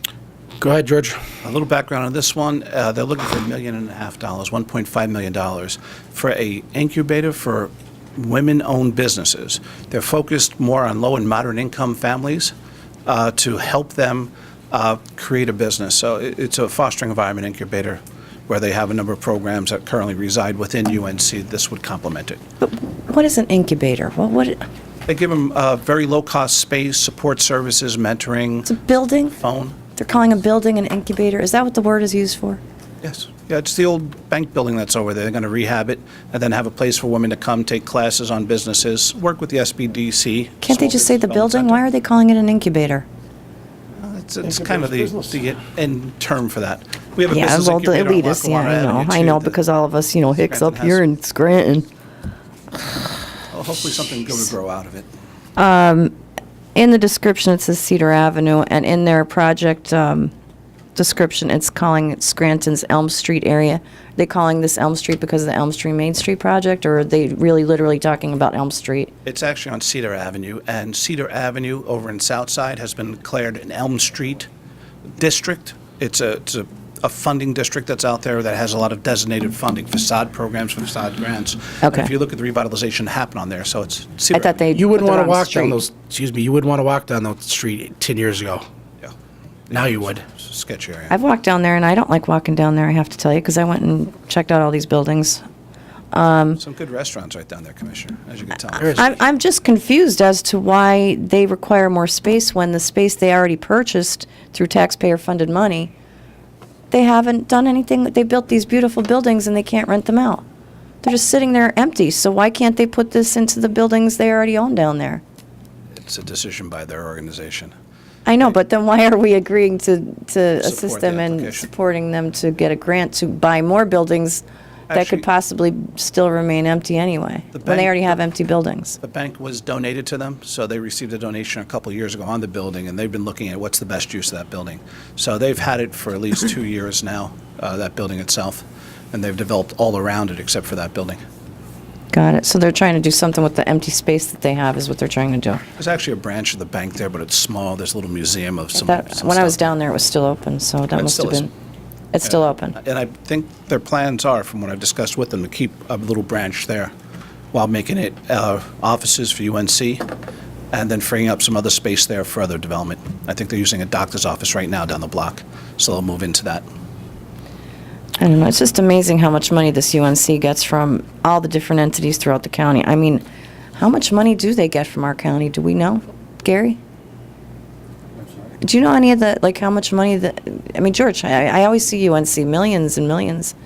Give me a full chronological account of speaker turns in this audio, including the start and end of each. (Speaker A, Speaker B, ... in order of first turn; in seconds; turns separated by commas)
Speaker A: 0.6-1.2, Speaker B: 1.4-12.5, Speaker B: 13.1-22.4, Speaker C: 22.6-24.6, Speaker B: 25.1-28.7, Speaker C: 28.7-29.4, Speaker B: 29.4-29.8, Speaker C: 29.9-32.6, Speaker B: 33.0-41.9, Speaker C: 40.6-43.1, Speaker B: 44.0-49.6, Speaker C: 47.3-51.9, Speaker B: 50.3-51.1, Speaker B: 53.5-55.1, Speaker C: 55.6-56.1, Speaker C: 56.8-60.3, Speaker C: 61.0-69.1, Speaker B: 69.2-74.5, Speaker B: 75.2-84.7, Speaker C: 81.8-82.1, Speaker C: 84.3-85.8, Speaker A: 84.7-88.7, Speaker B: 89.7-91.2, Speaker A: 89.7-90.2, Speaker C: 91.1-95.4, Speaker C: 96.1-96.6, Speaker B: 96.6-99.2, Speaker A: 98.8-99.1, Speaker C: 98.8-105.9, Speaker C: 106.9-110.5, Speaker C: 111.0-115.2, Speaker B: 116.0-117.7, Speaker C: 118.3-129.0, Speaker B: 120.6-121.7, Speaker B: 124.9-125.2, Speaker B: 127.5-128.2, Speaker B: 129.0-141.2, Speaker C: 142.1-145.6, Speaker B: 145.8-149.6, Speaker C: 148.8-151.5, Speaker B: 150.9-151.5, Speaker C: 152.1-152.8, Speaker B: 152.2-156.9, Speaker B: 157.5-160.1, Speaker B: 160.7-166.7, Speaker C: 168.2-173.2, Speaker C: 173.8-176.8, Speaker C: 178.6-183.5